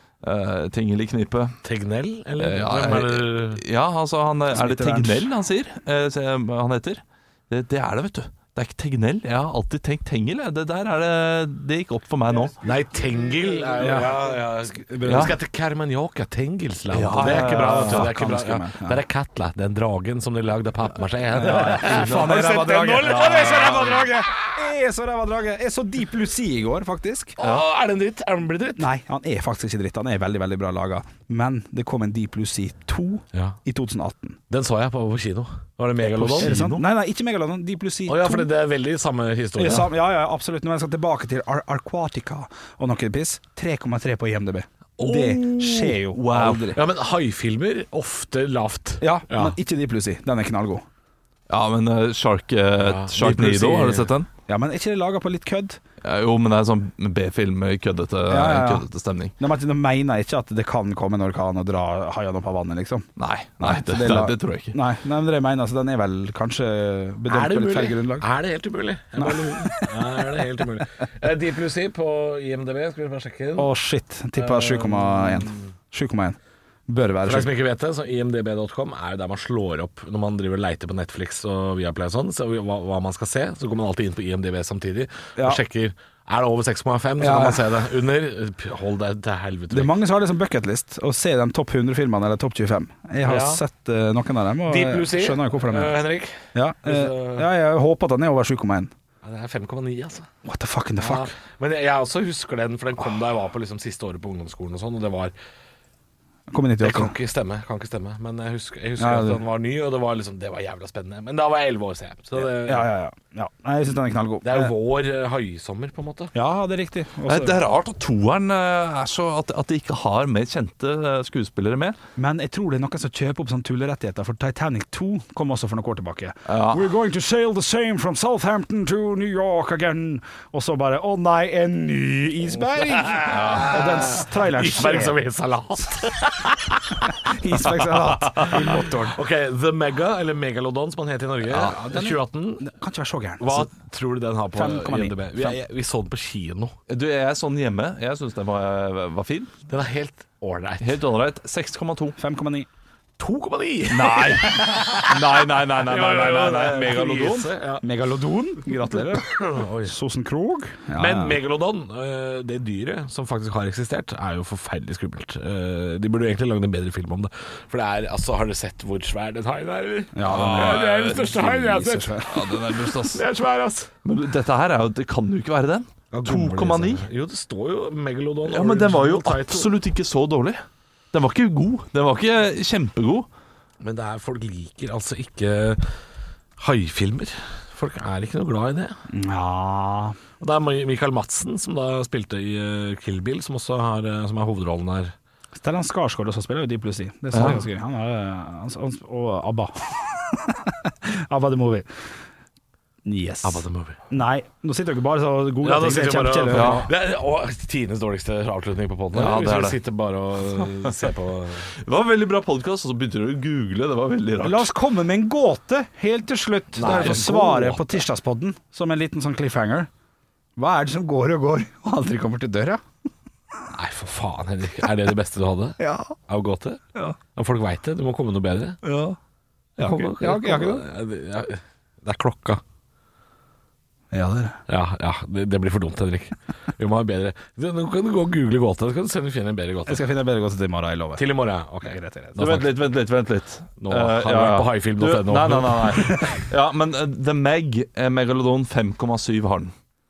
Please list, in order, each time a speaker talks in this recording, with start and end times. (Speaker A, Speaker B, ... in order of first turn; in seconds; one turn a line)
Speaker A: 0.2-1.6
Speaker B: 1.6-3.6
Speaker A: 2.4-12.6
Speaker C: 4.5-5.3
Speaker B: 12.6-24.4
Speaker C: 13.7-15.4
Speaker A: 15.1-15.3
Speaker A: 16.9-18.1
Speaker C: 17.2-19.0
Speaker C: 21.3-27.4
Speaker A: 21.4-24.1
Speaker B: 27.4-28.9
Speaker C: 28.8-34.4
Speaker B: 34.5-36.5
Speaker A: 36.0-36.8
Speaker C: 36.4-38.5
Speaker B: 38.1-39.9
Speaker C: 39.6-46.8
Speaker A: 45.0-46.7
Speaker B: 46.7-49.5
Speaker C: 49.0-50.8
Speaker A: 51.5-54.3
Speaker B: 52.8-54.1
Speaker C: 54.5-55.8
Speaker A: 56.0-59.3
Speaker C: 58.3-58.9
Speaker C: 59.4-63.1
Speaker A: 63.2-64.8
Speaker C: 63.6-68.2
Speaker B: 67.3-73.7
Speaker C: 69.2-70.1
Speaker C: 73.6-77.5
Speaker B: 74.3-75.7
Speaker B: 77.2-90.0
Speaker C: 87.2-87.7
Speaker C: 89.7-96.0
Speaker B: 93.2-93.6
Speaker B: 94.6-97.5
Speaker C: 96.5-98.9
Speaker B: 99.2-100.3
Speaker C: 100.4-101.3
Speaker B: 101.0-105.3
Speaker C: 106.5-107.1
Speaker B: 106.8-112.9
Speaker C: 109.0-109.4
Speaker C: 112.3-114.7
Speaker B: 114.4-116.3
Speaker C: 116.3-117.6
Speaker A: 117.2-122.0
Speaker C: 122.2-135.2
Speaker A: 126.5-126.9
Speaker B: 132.9-137.1
Speaker A: 133.3-133.8
Speaker C: 137.2-139.2
Speaker B: 138.4-142.7
Speaker C: 141.6-143.7
Speaker B: 143.4-146.7
Speaker C: 144.5-145.6
Speaker A: 146.9-149.5
Speaker B: 149.7-151.0
Speaker A: 150.8-152.2
Speaker C: 152.2-152.7
Speaker B: 153.2-155.1
Speaker A: 153.9-157.5
Speaker C: 154.6-155.0
Speaker B: 155.8-157.8
Speaker C: 157.8-161.4
Speaker B: 158.9-159.9
Speaker B: 160.9-172.2
Speaker C: 170.1-172.4
Speaker A: 170.2-171.5
Speaker A: 172.3-173.2
Speaker B: 173.0-173.9
Speaker A: 174.0-177.1
Speaker B: 176.1-179.7
Speaker A: 178.5-183.3
Speaker B: 183.8-185.9
Speaker B: 186.6-189.0
Speaker C: 189.1-190.2
Speaker B: 190.4-195.1
Speaker C: 195.5-201.9
Speaker A: 197.3-197.6
Speaker C: 203.0-206.9
Speaker B: 203.4-204.0
Speaker B: 205.6-211.7
Speaker A: 206.5-206.8
Speaker A: 209.1-209.8
Speaker A: 211.8-214.7
Speaker C: 214.4-219.9
Speaker B: 216.7-218.0
Speaker A: 216.8-217.2
Speaker C: 220.6-222.8
Speaker B: 223.7-226.8
Speaker C: 225.8-226.1
Speaker B: 227.3-228.8
Speaker C: 228.8-229.2
Speaker B: 229.8-232.6
Speaker C: 229.8-230.8
Speaker C: 234.1-234.6
Speaker B: 234.7-240.0
Speaker C: 239.9-241.3
Speaker B: 241.2-242.6
Speaker C: 241.8-242.7
Speaker A: 242.4-249.7
Speaker B: 243.8-246.4